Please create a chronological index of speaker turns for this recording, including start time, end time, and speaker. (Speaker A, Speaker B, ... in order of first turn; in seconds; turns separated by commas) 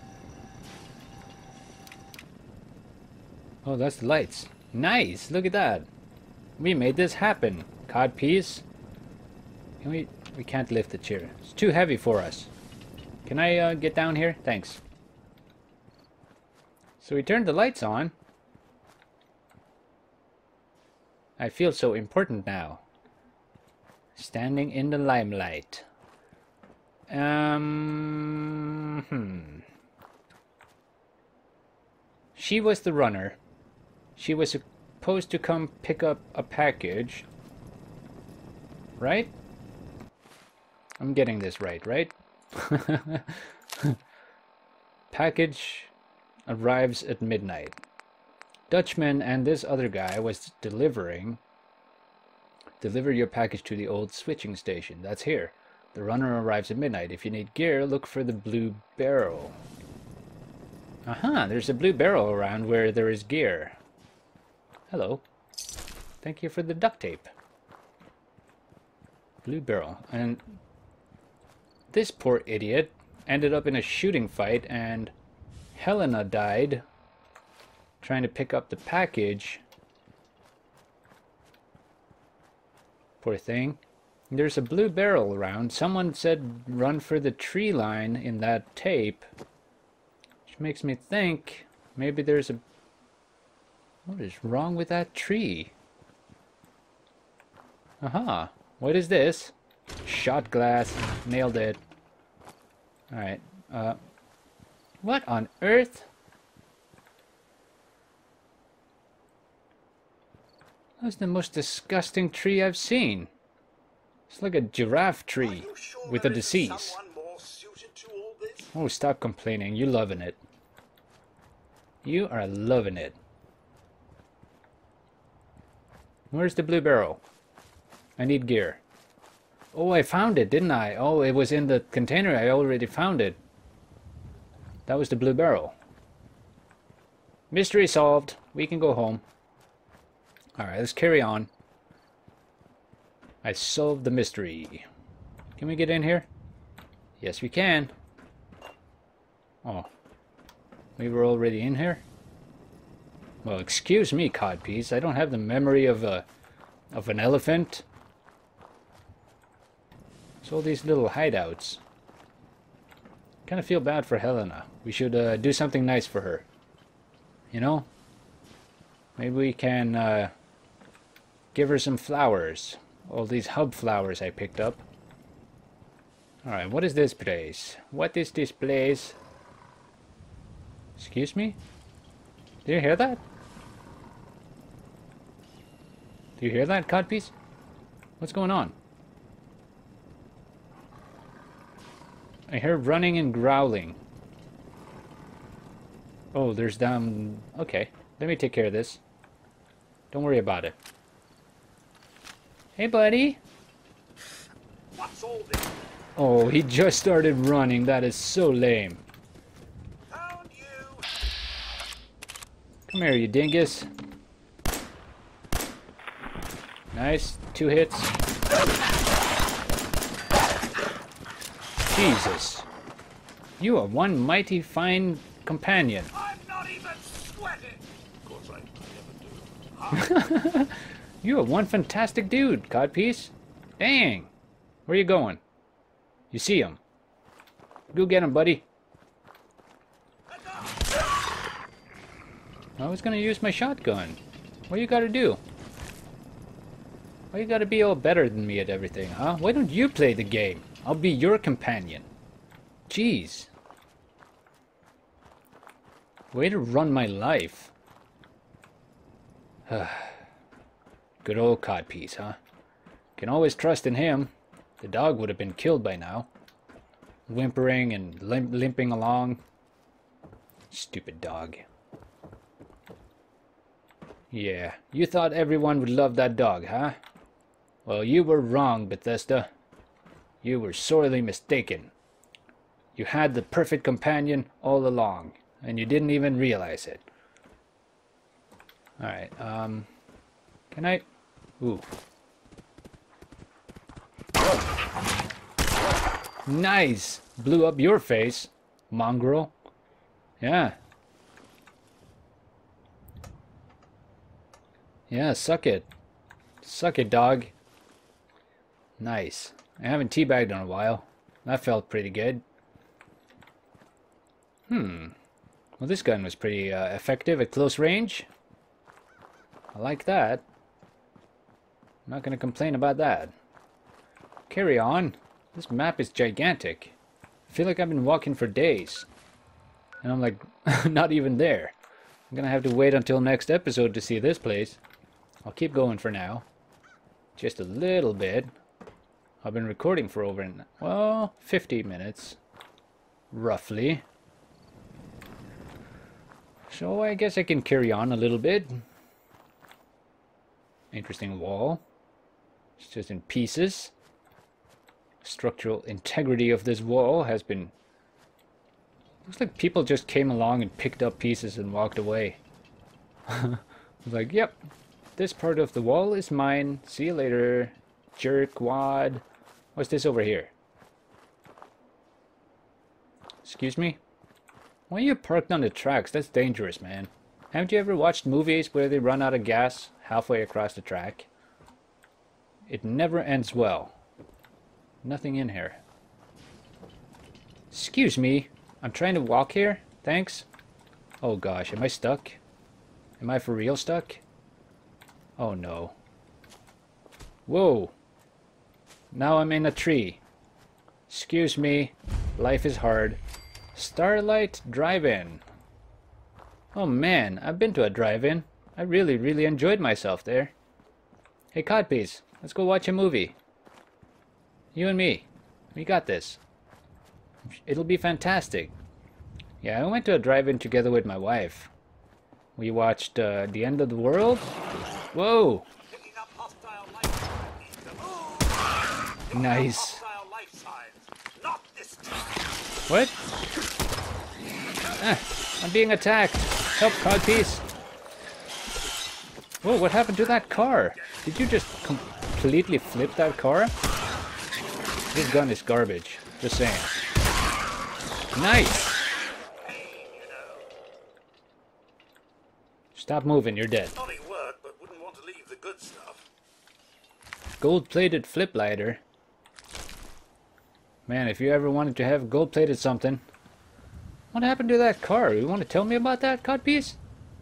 Speaker A: 3.6-5.9, Speaker A: 6.6-8.6, Speaker A: 9.8-12.5, Speaker A: 13.2-14.8, Speaker A: 17.0-18.1, Speaker A: 21.4-22.8, Speaker A: 24.1-25.8, Speaker A: 27.1-29.6, Speaker A: 32.3-33.4, Speaker A: 34.2-37.3, Speaker A: 39.0-39.3, Speaker A: 41.0-44.0, Speaker A: 45.1-45.9, Speaker A: 46.5-47.8, Speaker A: 48.7-51.4, Speaker A: 52.8-59.6, Speaker A: 61.0-63.8, Speaker A: 64.9-65.2, Speaker A: 66.2-67.3, Speaker A: 69.4-70.4, Speaker A: 71.9-75.1, Speaker A: 75.7-76.8, Speaker A: 78.0-79.6, Speaker A: 83.2-89.3, Speaker A: 90.5-92.6, Speaker A: 94.0-95.7, Speaker A: 98.0-101.8, Speaker A: 103.1-104.0, Speaker A: 105.0-106.1, Speaker A: 111.0-113.3, Speaker A: 114.3-117.0, Speaker B: 115.4-118.7, Speaker A: 118.7-120.4, Speaker A: 122.0-123.2, Speaker A: 126.3-127.2, Speaker A: 128.2-128.8, Speaker A: 129.7-133.4, Speaker A: 134.9-135.7, Speaker A: 137.5-139.2, Speaker A: 140.6-141.5, Speaker A: 143.4-144.8, Speaker A: 145.6-146.3, Speaker A: 147.2-147.9, Speaker A: 149.6-149.9, Speaker A: 151.0-152.0, Speaker A: 153.4-156.2, Speaker A: 156.9-157.8, Speaker A: 160.4-161.8, Speaker A: 163.4-166.4, Speaker A: 167.5-167.9, Speaker A: 169.2-170.3, Speaker A: 171.5-174.8, Speaker A: 176.4-179.2, Speaker A: 181.0-181.6, Speaker A: 182.6-183.2, Speaker A: 186.4-187.3, Speaker A: 188.2-188.7, Speaker A: 192.5-194.0, Speaker A: 196.3-199.0, Speaker A: 200.1-200.8, Speaker A: 202.8-203.4, Speaker B: 204.9-205.8, Speaker A: 206.2-209.0, Speaker B: 210.1-211.1, Speaker A: 212.9-213.9, Speaker A: 216.9-218.1, Speaker A: 221.9-222.7, Speaker A: 223.6-226.1, Speaker B: 226.1-230.1, Speaker A: 229.9-234.3, Speaker A: 234.9-235.4, Speaker A: 236.3-236.8, Speaker A: 237.9-238.6, Speaker B: 240.3-241.3, Speaker A: 242.8-245.4, Speaker A: 247.3-252.1, Speaker A: 252.9-253.5, Speaker A: 256.3-257.7, Speaker A: 259.7-260.2, Speaker A: 261.2-262.4, Speaker A: 263.2-266.3, Speaker A: 267.3-269.4, Speaker A: 270.7-271.6, Speaker A: 274.3-277.0, Speaker A: 277.9-279.5, Speaker A: 280.4-281.9, Speaker A: 282.9-287.0, Speaker A: 289.0-289.9, Speaker A: 290.7-291.0, Speaker A: 291.6-291.9, Speaker A: 296.4-299.5, Speaker A: 300.4-300.8, Speaker A: 305.1-305.9, Speaker A: 306.6-307.5, Speaker A: 309.0-312.4, Speaker A: 314.7-315.1, Speaker A: 315.8-318.3, Speaker A: 319.7-320.4, Speaker A: 322.1-323.3, Speaker A: 324.5-326.9, Speaker A: 327.5-329.1, Speaker A: 330.0-331.7, Speaker A: 332.3-334.8, Speaker A: 335.4-336.4, Speaker A: 337.4-338.5, Speaker A: 339.4-342.4, Speaker A: 343.3-344.0, Speaker A: 346.7-348.8, Speaker A: 350.9-351.8, Speaker A: 352.8-353.9, Speaker A: 355.2-357.7, Speaker A: 359.2-362.4, Speaker A: 363.3-364.6, Speaker A: 365.2-369.2, Speaker A: 369.7-370.5, Speaker A: 373.4-374.0, Speaker A: 374.9-381.3, Speaker A: 382.7-383.9, Speaker A: 385.0-385.8, Speaker A: 387.7-390.5, Speaker A: 391.2-392.4, Speaker A: 393.2-394.2, Speaker A: 395.4-395.9, Speaker A: 397.5-397.9, Speaker A: 399.1-400.2, Speaker A: 401.1-403.2, Speaker A: 403.7-405.4, Speaker A: 406.7-410.5, Speaker A: 411.5-413.4, Speaker A: 414.7-416.4, Speaker A: 417.4-418.7, Speaker A: 419.6-421.7, Speaker A: 422.6-424.6, Speaker A: 425.1-425.7, Speaker B: 425.9-432.6, Speaker A: 429.3-430.0, Speaker A: 432.9-433.2, Speaker A: 435.0-437.6, Speaker A: 439.6-443.7, Speaker B: 440.4-441.1, Speaker A: 445.1-447.0, Speaker A: 448.3-448.9, Speaker B: 449.5-450.7, Speaker A: 452.9-453.9, Speaker B: 453.9-456.3, Speaker A: 457.6-459.0, Speaker A: 461.1-463.2, Speaker A: 464.3-467.0